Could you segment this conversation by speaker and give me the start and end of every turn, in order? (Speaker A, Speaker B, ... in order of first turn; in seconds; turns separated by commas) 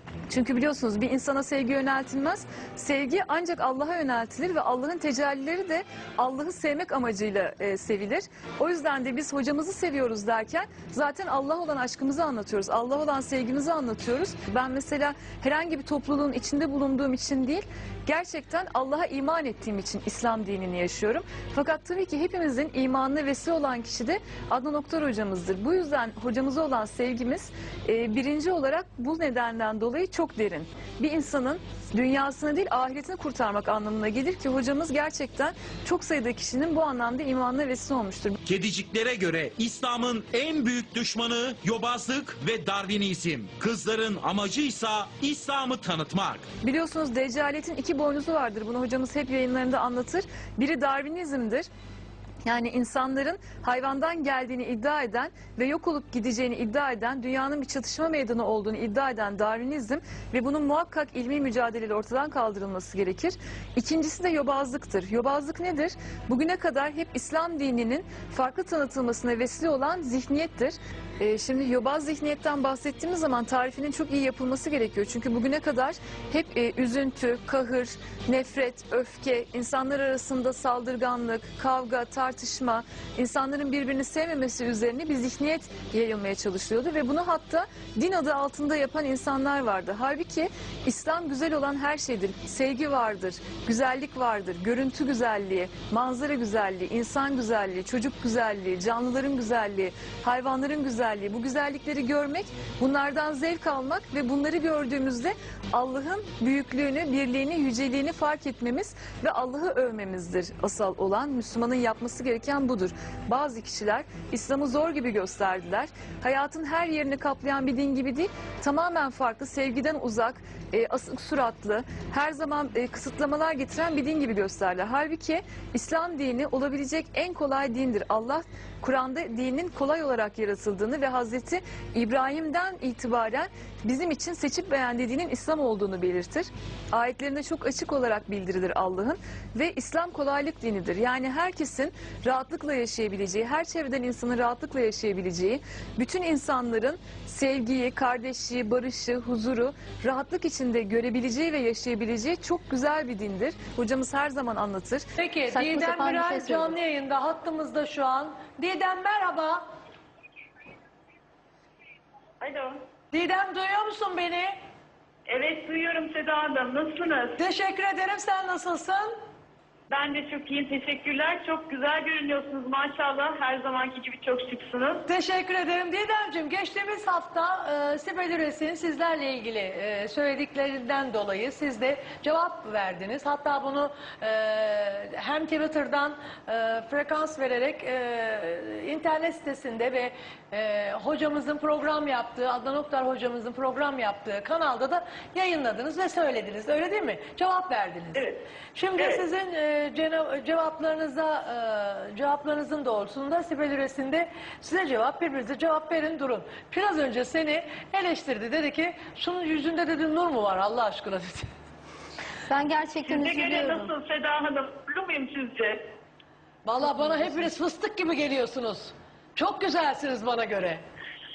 Speaker A: 0.3-38.4, Speaker B: 38.5-46.5, Speaker A: 46.6-51.7, Speaker A: 52.5-155.0, Speaker C: 155.2-159.7, Speaker D: 155.5-156.7, Speaker E: 162.4-162.8, Speaker C: 163.1-164.6, Speaker E: 165.3-167.4, Speaker C: 167.4-169.1, Speaker E: 169.9-175.0, Speaker C: 175.1-211.5, Speaker D: 212.5-213.9, Speaker E: 213.1-215.8, Speaker C: 216.7-220.8